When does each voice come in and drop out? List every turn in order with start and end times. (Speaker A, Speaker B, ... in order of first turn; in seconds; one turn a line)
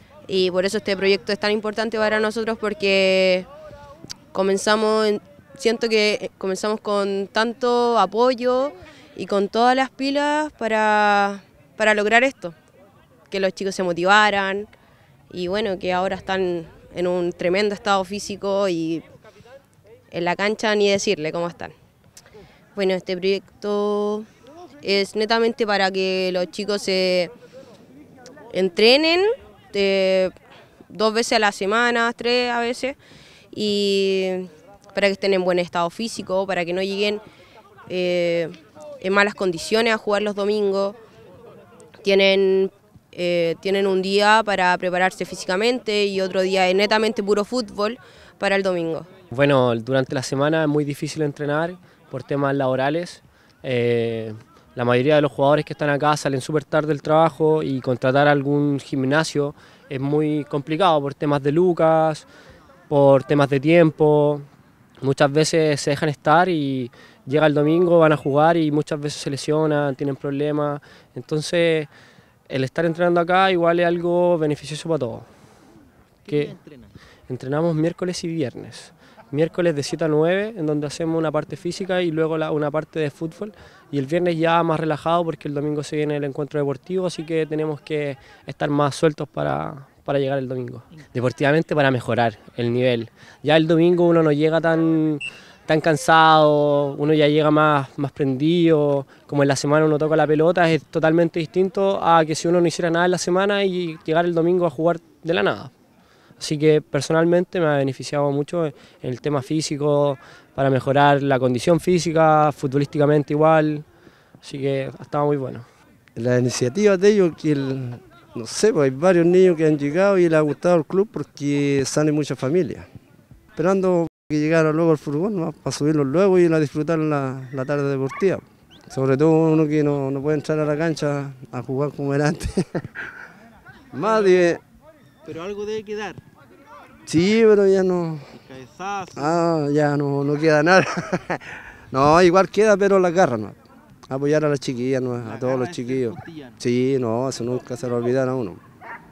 Speaker A: 0.3-3.5
Speaker A: 4.3-12.5
Speaker A: 13.3-14.7
Speaker A: 15.3-19.1
Speaker A: 20.1-21.7
Speaker A: 22.7-24.3
Speaker A: 24.8-27.3
Speaker A: 28.5-30.3
Speaker A: 30.9-33.0
Speaker A: 33.5-37.2
Speaker A: 37.9-41.0
Speaker A: 42.0-49.1
Speaker B: 49.3-62.2
Speaker B: 62.9-64.4
Speaker B: 65.0-71.9
Speaker B: 72.5-75.3
Speaker C: 76.2-76.9
Speaker B: 76.3-76.5
Speaker B: 77.3-105.7
Speaker B: 106.4-113.8
Speaker B: 114.4-115.6
Speaker D: 116.2-122.9
Speaker D: 123.5-133.0
Speaker D: 133.9-134.6
Speaker C: 134.0-134.6
Speaker C: 135.2-136.2
Speaker D: 137.1-138.3
Speaker C: 138.3-139.3
Speaker D: 139.1-143.6
Speaker D: 144.1-148.6
Speaker C: 145.3-146.5